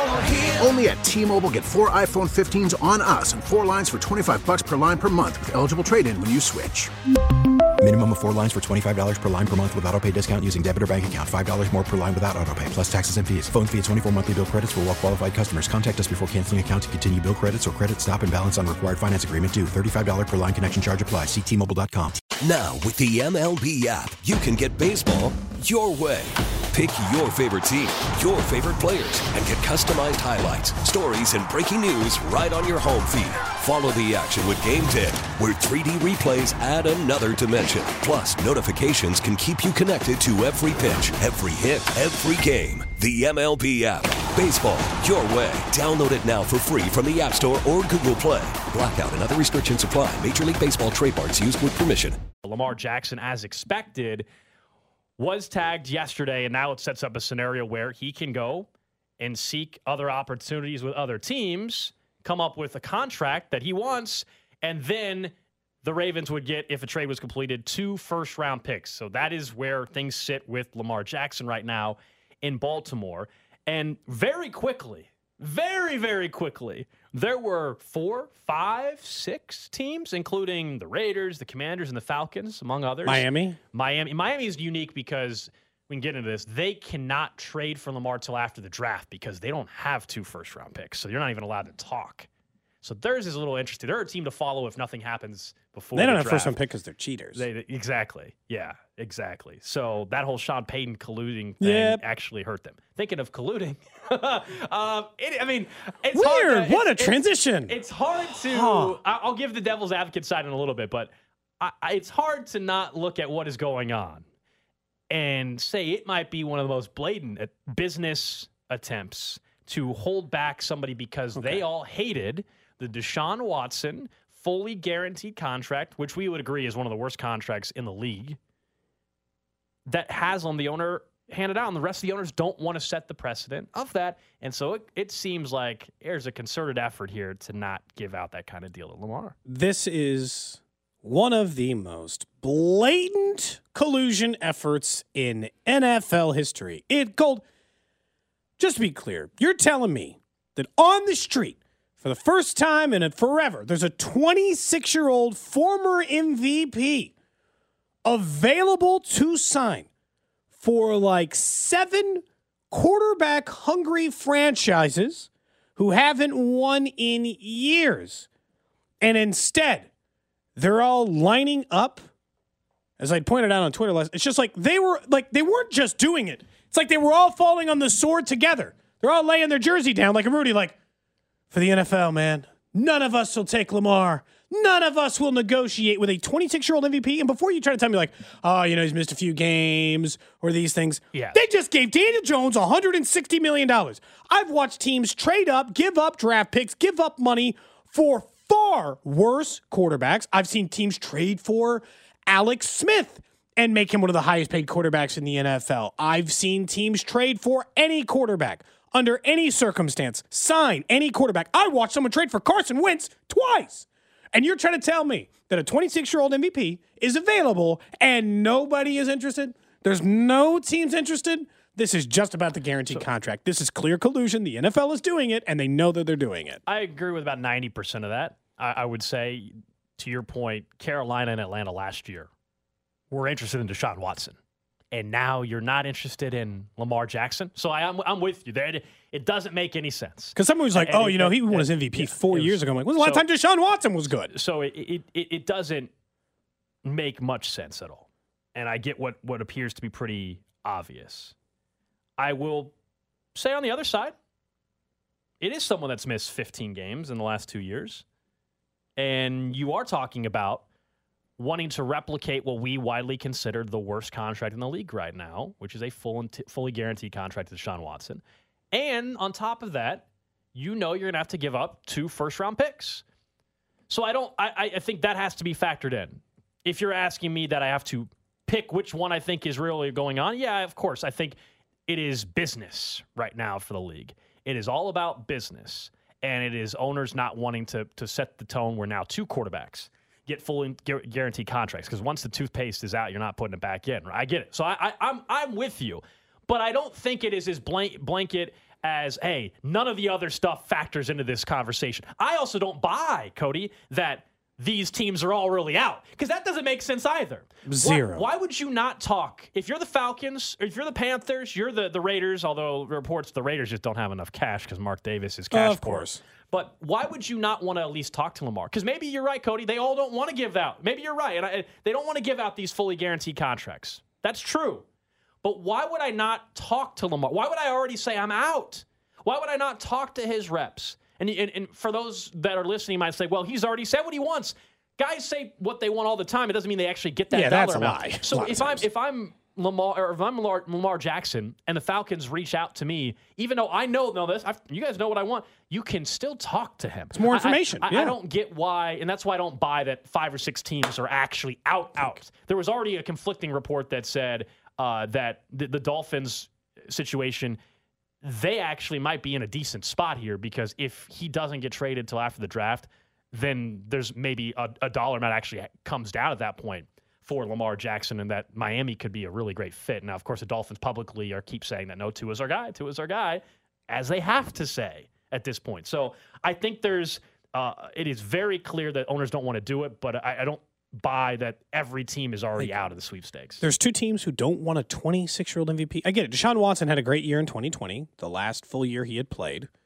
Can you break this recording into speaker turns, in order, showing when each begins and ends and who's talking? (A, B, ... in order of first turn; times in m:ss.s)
0:00.6-0:06.9 A
0:07.8-0:22.2 B
0:22.4-0:52.2 C
0:52.4-0:54.3 D
0:55.2-1:32.3 D
1:23.0-1:23.6 E
1:32.8-1:36.6 D
1:35.9-1:37.4 E
1:37.3-1:54.2 D
1:41.6-1:42.0 E
1:46.1-1:47.8 E
1:48.5-1:49.0 E
1:55.1-2:08.4 D
2:01.4-2:01.6 E
2:09.9-2:19.4 D
2:19.4-2:27.4 E
2:28.6-2:37.1 E
2:38.0-2:39.9 E
2:40.6-2:48.3 E
2:49.0-2:49.9 E
2:50.6-2:52.0 E
2:53.0-3:00.8 E
3:01.5-3:46.6 E
3:11.1-3:11.4 D
3:46.6-3:52.3 D
3:53.1-3:54.4 D
3:54.9-4:03.2 D
4:00.4-4:04.3 E
4:04.2-4:05.9 D
4:06.8-4:11.3 D
4:12.2-4:12.7 D
4:13.3-4:14.1 D
4:15.4-4:18.0 D
4:19.0-4:20.6 D
4:21.4-4:33.0 D
4:33.9-4:41.4 D
4:41.9-5:24.8 D
5:07.7-5:08.3 E
5:15.5-5:16.2 E
5:25.4-5:57.6 D
5:37.3-5:38.9 E
5:47.1-5:48.2 E
5:58.2-6:23.6 D
6:23.6-6:29.7 E